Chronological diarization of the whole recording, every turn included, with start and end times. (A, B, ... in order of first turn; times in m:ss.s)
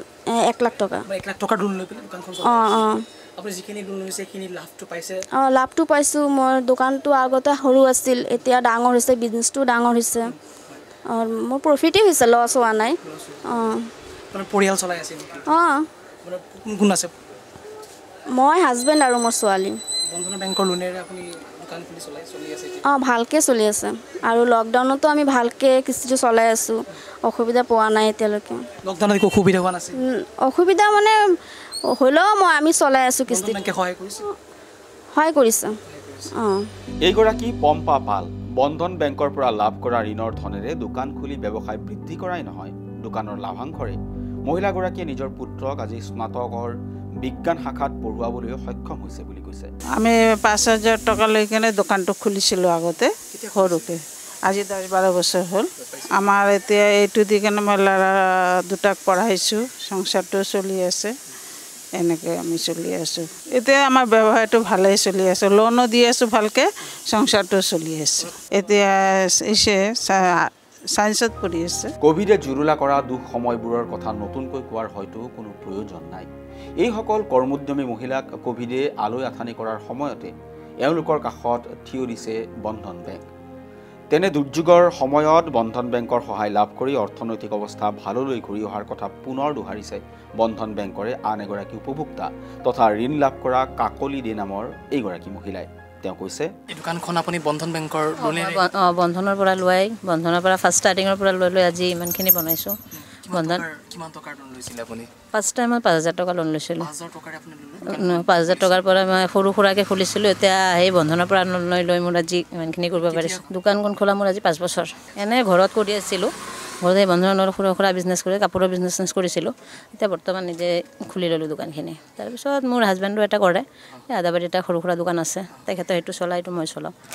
0:00.4-0:01.1 A
0:01.1-0:05.2 B
0:02.4-0:03.1 A
0:05.3-0:10.4 A
0:10.3-0:10.8 B
0:11.1-0:13.9 A
0:13.0-0:13.7 B
0:14.3-0:15.4 B
0:15.4-0:15.9 A
0:16.2-0:17.1 B
0:18.3-0:19.8 A
0:20.1-0:22.8 B
0:22.8-0:28.7 A
0:28.8-0:30.0 B
0:29.9-0:31.1 A
0:31.9-0:33.6 A
0:33.3-0:34.2 B
0:35.1-0:35.8 A
0:35.9-0:36.3 B
0:36.3-0:36.7 A
0:37.0-0:49.7 C
0:50.0-0:53.0 D
0:53.3-0:54.0 B
0:54.5-0:55.7 D
0:55.9-0:56.2 B
0:56.3-0:58.1 D
0:58.7-1:01.1 D
1:02.0-1:06.6 D
1:07.1-1:08.7 D
1:09.4-1:10.2 D
1:11.0-1:11.9 D
1:12.0-1:16.3 C
1:16.8-1:20.3 C
1:20.8-1:23.2 C
1:24.1-1:36.5 C
1:36.7-1:38.6 B
1:38.2-1:42.7 E
1:43.0-1:45.1 B
1:43.3-1:43.6 E
1:45.3-1:46.9 E
1:46.8-1:48.9 B
1:47.8-1:56.3 E
1:53.0-1:53.5 B
1:56.8-2:06.9 E